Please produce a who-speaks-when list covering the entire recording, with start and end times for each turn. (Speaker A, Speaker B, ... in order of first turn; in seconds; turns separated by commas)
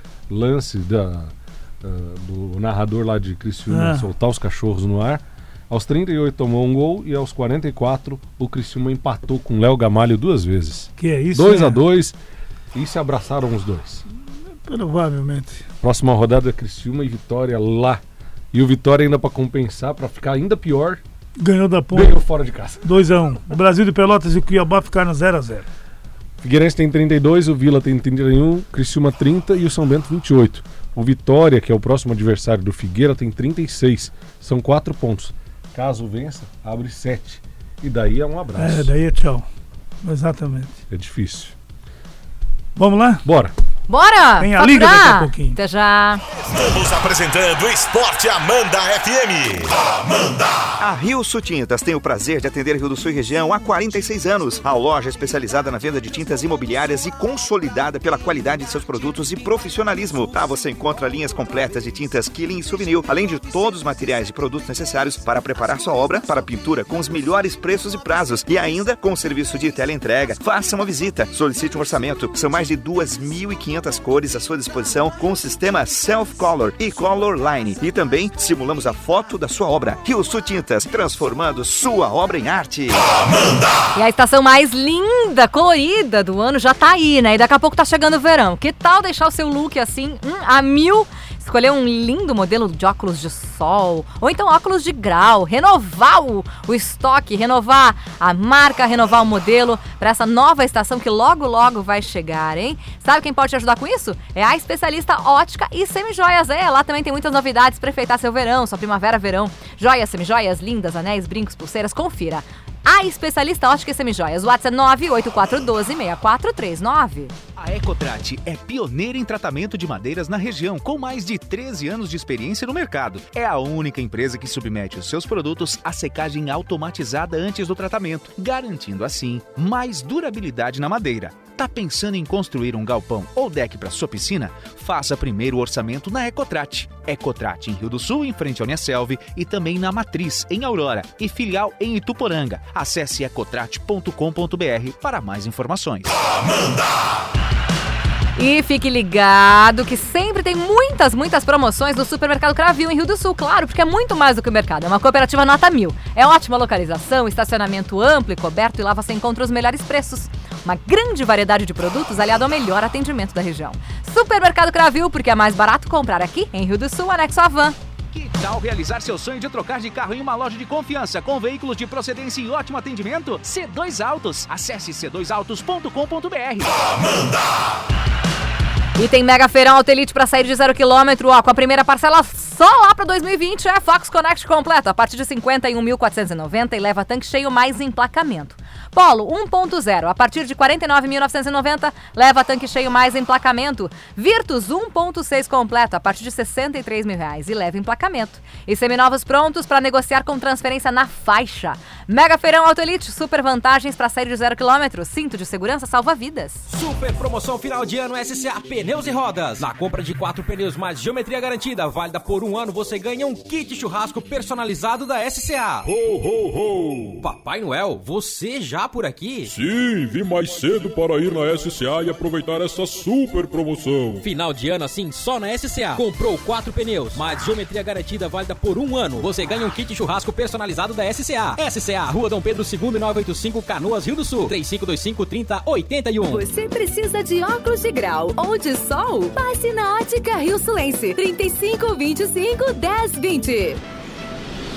Speaker A: 0.3-12.2, Speaker B: 3.7-4.1, Speaker B: 11.0-11.8, Speaker A: 12.7-14.1, Speaker B: 14.5-15.7, Speaker A: 15.8-21.0, Speaker B: 21.4-22.2, Speaker A: 21.9-23.0, Speaker B: 22.8-25.7, Speaker A: 26.4-38.9, Speaker B: 38.6-39.5, Speaker B: 40.0-40.8, Speaker A: 40.9-41.5, Speaker B: 42.8-43.2, Speaker A: 43.2-43.5, Speaker C: 43.9-46.2, Speaker B: 44.4-45.6, Speaker D: 46.4-50.4, Speaker E: 50.8-83.1, Speaker C: 83.9-117.3, Speaker F: 117.6-146.2, Speaker C: 148.4-167.8, Speaker F: 168.1-176.8, Speaker C: 179.0-206.6, Speaker G: 206.7-215.9, Speaker H: 215.8-217.2, Speaker G: 217.2-219.5, Speaker H: 219.4-224.3, Speaker G: 224.2-236.5, Speaker I: 236.3-243.8